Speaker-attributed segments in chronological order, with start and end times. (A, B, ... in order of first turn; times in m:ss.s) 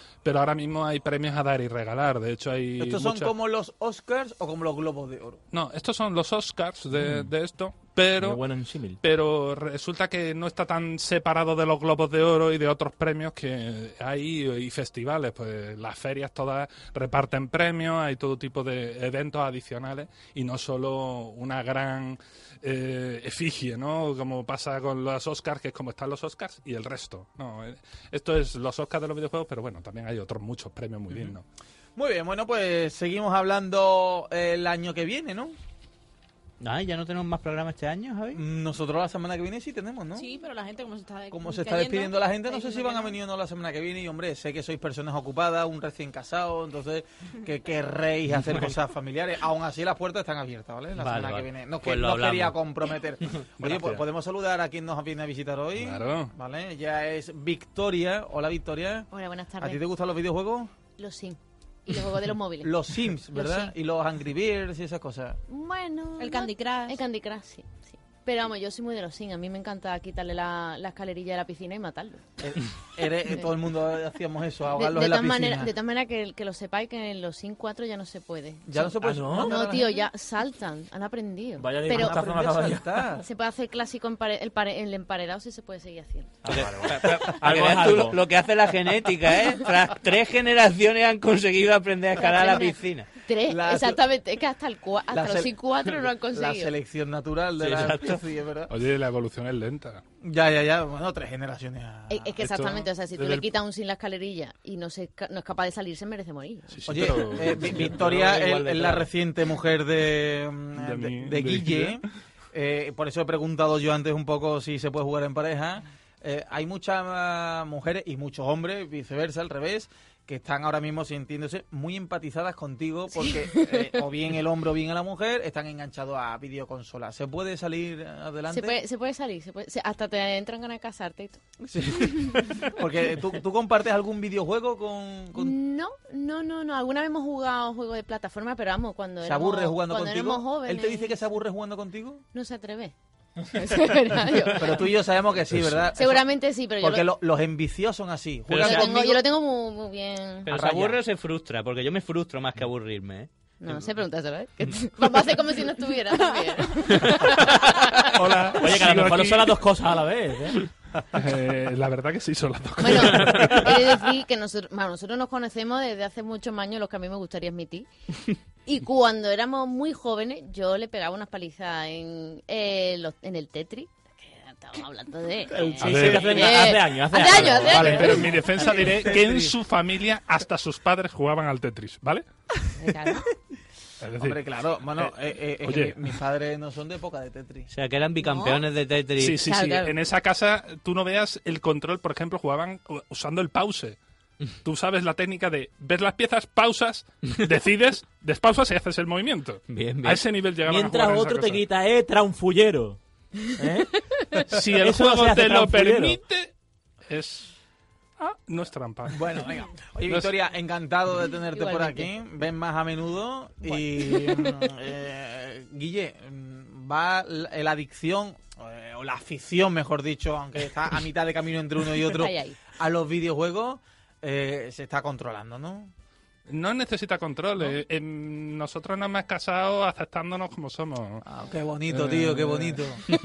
0:00.2-0:03.3 A
0:02.8-0:05.4 B
0:05.5-0:08.4 A
0:07.0-0:07.3 C
0:08.2-0:09.0 C
0:09.0-0:31.4 A
0:32.0-0:35.6 B
0:36.6-0:38.4 D
0:38.4-0:40.3 B
0:40.2-0:43.2 E
0:41.3-0:59.1 B
0:51.0-0:52.6 D
0:53.6-0:54.0 A
0:55.8-0:56.3 A
0:59.1-0:59.8 F
0:59.6-1:00.7 B
1:01.0-1:02.8 F
1:02.6-1:05.4 B
1:03.3-1:03.7 F
1:05.5-1:12.4 F
1:06.2-1:07.0 E
1:12.4-1:15.7 B
1:13.3-1:13.5 F
1:14.7-1:22.2 F
1:18.7-1:20.0 B
1:19.0-1:19.5 C
1:21.6-1:22.8 C
1:21.9-1:23.3 B
1:23.2-1:26.5 F
1:26.4-1:28.2 C
1:26.6-1:33.1 D
1:27.0-1:27.3 B
1:32.2-1:36.7 F
1:33.5-1:34.0 B
1:35.1-1:38.7 B
1:37.6-1:38.2 D
1:38.7-1:40.0 A
1:40.2-1:42.3 B
1:42.1-1:47.0 F
1:42.4-1:43.5 A
1:46.7-1:47.8 A
1:46.9-2:08.8 B
1:47.5-1:49.1 D
1:50.8-1:52.0 A
2:03.2-2:04.0 F
2:08.5-2:11.4 F
2:11.6-2:15.5 B
2:15.4-2:21.2 F
2:19.2-2:22.2 B
2:22.3-2:22.9 F
2:23.5-2:25.0 F
2:24.6-2:26.2 B
2:25.5-2:25.9 A
2:26.0-2:27.1 F
2:26.8-2:29.2 B
2:28.5-2:29.0 C
2:28.6-2:30.5 F
2:30.5-2:31.0 B
2:30.5-2:33.3 D
2:33.6-2:38.2 F
2:38.0-2:39.6 A
2:38.5-2:40.7 C
2:41.1-2:43.8 A
2:42.8-2:47.9 F
2:43.2-2:43.6 C
2:48.7-2:58.6 F
2:55.6-2:58.3 C
2:55.8-2:56.6 A
2:57.3-3:02.2 A
2:58.7-2:59.5 B
3:02.8-3:03.2 F
3:04.0-3:04.4 A
3:04.2-3:07.7 B
3:05.6-3:06.2 A
3:07.7-3:09.5 D
3:08.2-3:08.6 F
3:09.2-3:14.0 A
3:09.4-3:10.0 F
3:14.6-3:21.6 A
3:19.7-3:20.2 D
3:20.6-3:23.0 C
3:23.6-3:23.9 C
3:24.4-3:26.5 A
3:24.7-3:26.2 C
3:27.1-3:27.5 A
3:28.2-3:29.3 A
3:29.1-3:45.9 B
3:30.1-3:30.3 A
3:31.5-3:32.1 F
3:33.7-3:34.7 F
3:42.0-3:42.6 F
3:46.5-3:51.2 A
3:51.2-3:53.0 B
3:51.9-3:52.8 A